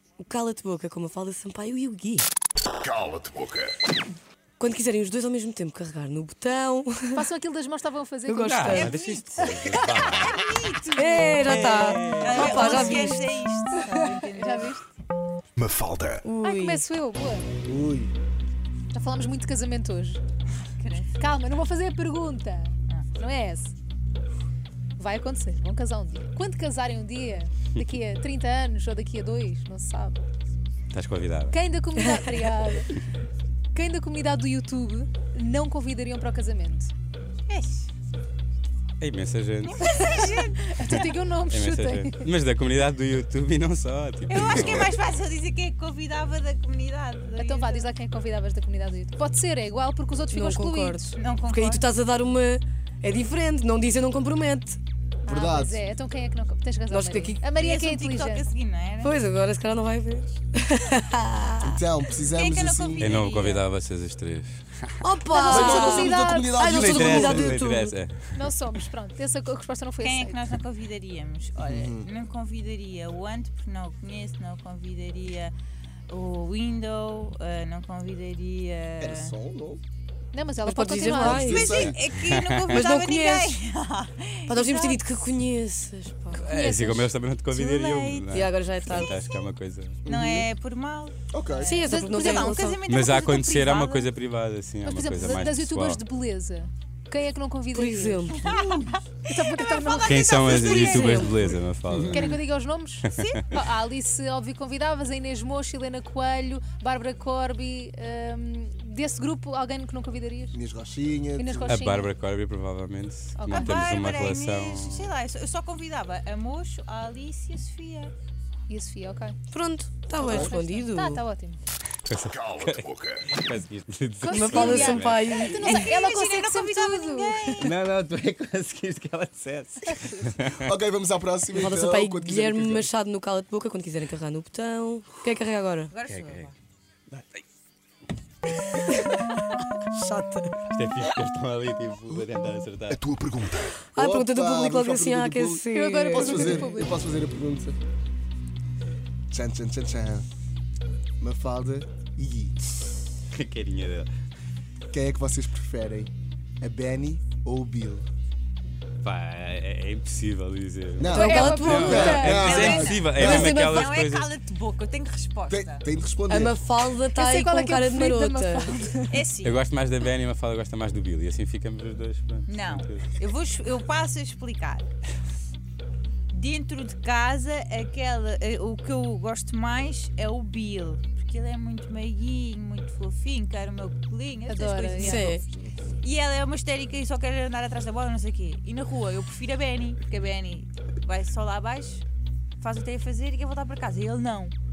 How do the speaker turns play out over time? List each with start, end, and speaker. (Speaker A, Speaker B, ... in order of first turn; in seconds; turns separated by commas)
Speaker A: 0.2-2.3, Speaker B: 3.2-3.5, Speaker A: 4.6-7.3, Speaker C: 7.2-8.9, Speaker A: 8.3-9.0, Speaker D: 8.5-10.5, Speaker E: 8.7-11.6, Speaker A: 10.9-13.2, Speaker D: 11.4-12.9, Speaker E: 12.2-14.8, Speaker C: 12.5-14.8, Speaker B: 15.6-16.2, Speaker A: 16.2-16.8, Speaker C: 16.4-17.5, Speaker F: 17.6-18.1, Speaker C: 18.9-20.2, Speaker E: 20.7-21.4, Speaker C: 21.2-23.8, Speaker E: 22.9-23.2, Speaker C: 25.0-30.2, Speaker D: 30.9-31.6, Speaker C: 31.5-33.0, Speaker A: 32.0-32.5, Speaker C: 33.7-36.9, Speaker E: 37.5-37.9, Speaker D: 39.0-39.8, Speaker E: 39.6-41.1, Speaker C: 39.9-42.3, Speaker D: 40.9-45.0, Speaker E: 44.3-47.9, Speaker C: 47.4-51.2, Speaker A: 50.3-54.8, Speaker E: 51.1-51.9, Speaker C: 55.2-58.5, Speaker F: 55.3-55.8, Speaker A: 56.9-57.4, Speaker E: 57.6-59.1, Speaker A: 59.0-61.7, Speaker F: 61.6-63.1, Speaker E: 62.3-63.6, Speaker D: 63.0-65.1, Speaker A: 65.0-68.0, Speaker C: 65.3-67.1, Speaker F: 65.5-67.7, Speaker D: 66.6-68.5, Speaker C: 68.3-70.4, Speaker E: 70.0-75.5, Speaker F: 71.6-72.1, Speaker E: 76.1-79.3, Speaker F: 79.0-79.8, Speaker C: 80.3-81.9, Speaker A: 80.7-81.9, Speaker F: 81.0-82.0, Speaker E: 81.3-85.0, Speaker D: 82.3-82.8, Speaker A: 82.7-83.6, Speaker A: 84.5-86.5, Speaker D: 86.4-90.1, Speaker C: 86.4-87.1, Speaker E: 87.5-89.2, Speaker A: 88.3-89.1, Speaker F: 90.1-90.5, Speaker E: 90.1-94.1, Speaker F: 91.3-91.8, Speaker A: 91.6-92.8, Speaker C: 91.9-92.6, Speaker D: 92.8-96.0, Speaker C: 94.8-98.3, Speaker A: 97.7-98.5, Speaker E: 98.3-101.6, Speaker F: 98.4-99.0, Speaker C: 99.3-101.4, Speaker D: 100.0-102.4, Speaker A: 100.9-101.3, Speaker F: 101.9-102.3, Speaker C: 102.0-110.6, Speaker D: 103.1-103.4, Speaker F: 110.5-111.9, Speaker C: 111.4-112.1, Speaker D: 111.7-115.1, Speaker C: 113.4-113.8, Speaker E: 113.5-118.1, Speaker C: 118.7-119.4, Speaker A: 119.5-121.2, Speaker C: 120.2-121.6, Speaker F: 120.3-120.5, Speaker D: 122.1-125.3, Speaker C: 124.2-127.7, Speaker A: 124.3-125.9, Speaker E: 124.6-127.7, Speaker D: 127.6-130.6, Speaker F: 130.5-132.9, Speaker A: 131.5-135.9, Speaker E: 135.9-136.5, Speaker D: 136.1-136.5, Speaker A: 138.9-139.2, Speaker A: 139.9-140.6, Speaker D: 140.7-143.0, Speaker B: 142.9-143.8, Speaker A: 143.9-146.7, Speaker F: 144.0-147.8, Speaker C: 145.7-146.9, Speaker F: 149.3-150.3, Speaker F: 151.2-152.6, Speaker D: 153.3-154.1, Speaker F: 154.9-158.1, Speaker D: 159.0-164.3, Speaker F: 161.0-163.5, Speaker C: 161.1-162.9, Speaker A: 161.1-162.3, Speaker E: 162.3-165.8, Speaker A: 163.2-163.9, Speaker F: 165.5-166.6, Speaker A: 166.3-168.8, Speaker C: 167.1-169.2, Speaker E: 169.1-169.6, Speaker D: 169.4-173.1, Speaker E: 172.5-174.9, Speaker E: 176.3-185.4, Speaker C: 184.5-185.3, Speaker A: 185.0-185.4, Speaker E: 186.0-192.1, Speaker E: 192.6-194.5